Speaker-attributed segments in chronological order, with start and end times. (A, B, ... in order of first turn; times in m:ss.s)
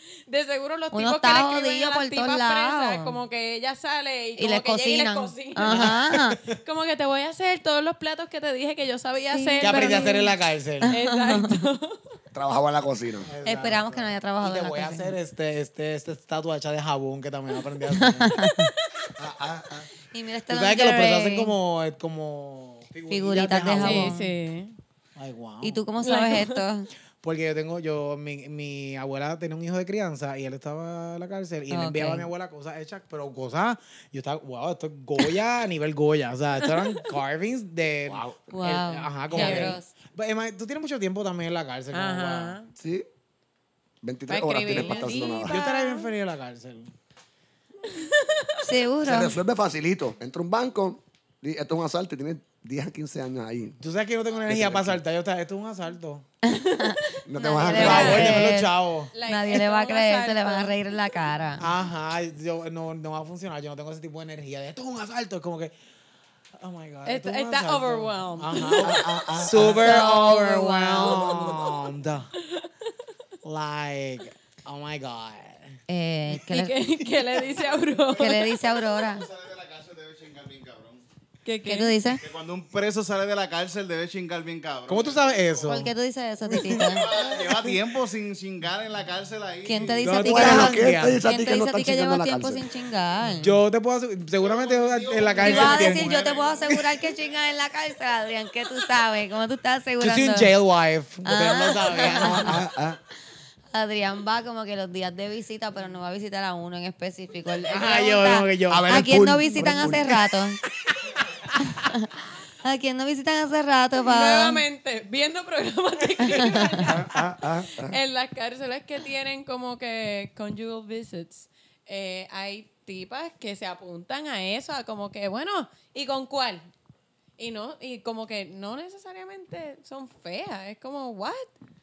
0:00.3-0:06.0 A
0:00.9-0:03.2 B
0:04.4-0:06.4 B
0:05.6-0:06.4 C
0:06.6-0:12.0 A
0:09.3-0:10.1 B
0:09.6-0:11.0 C
0:10.9-0:11.6 B
0:12.3-0:13.3 D
0:13.2-0:18.4 C
0:13.4-0:15.2 B
0:18.0-0:18.7 B
0:19.2-0:19.9 D
0:20.1-0:21.5 B
0:20.5-0:24.1 C
0:23.1-0:24.3 B
0:23.7-0:24.8 A
0:25.2-0:25.8 C
0:25.6-0:26.9 B
0:26.0-0:26.6 A
0:27.2-0:42.6 C
0:31.7-0:32.3 B
0:38.1-0:38.3 D
0:38.5-0:39.9 B
0:39.3-0:39.8 A
0:41.9-0:42.7 A
0:42.8-0:43.0 D
0:44.0-0:45.6 D
0:44.3-0:46.1 A
0:44.7-0:46.9 C
0:47.9-0:48.5 A
0:48.6-0:49.4 B
0:49.0-0:53.8 D
0:53.8-0:56.2 C
0:54.4-0:55.0 D
0:56.4-0:58.7 B
0:57.3-0:58.5 D
0:57.4-0:58.6 A
0:57.7-0:59.1 C
0:59.1-1:00.8 A
0:59.2-1:01.7 B
1:01.6-1:05.7 C
1:06.6-1:12.3 C
1:07.0-1:09.1 A
1:08.8-1:10.1 D
1:09.6-1:11.6 B
1:11.0-1:11.7 D
1:12.4-1:12.7 A
1:13.4-1:15.8 C
1:15.9-1:16.7 B
1:16.5-1:18.6 A
1:17.6-1:21.0 E
1:18.2-1:19.3 B
1:21.4-1:22.0 A
1:21.6-1:22.2 B
1:22.2-1:25.8 E
1:24.9-1:25.9 C
1:25.6-1:27.1 B
1:26.5-1:27.8 C
1:26.8-1:30.2 E
1:29.6-1:33.6 B
1:30.0-1:31.2 C
1:30.2-1:32.6 D
1:33.4-1:36.2 C
1:34.4-1:37.3 E
1:35.4-1:40.5 B
1:40.0-1:42.6 C
1:41.2-1:42.6 B
1:42.1-1:43.0 D
1:43.7-1:50.6 B
1:47.7-1:49.0 C
1:48.7-1:50.3 D
1:51.6-1:52.1 B
1:52.6-1:54.6 B
1:54.0-2:06.7 A
1:56.4-1:56.7 B
1:56.9-1:58.0 D
2:07.4-2:11.5 A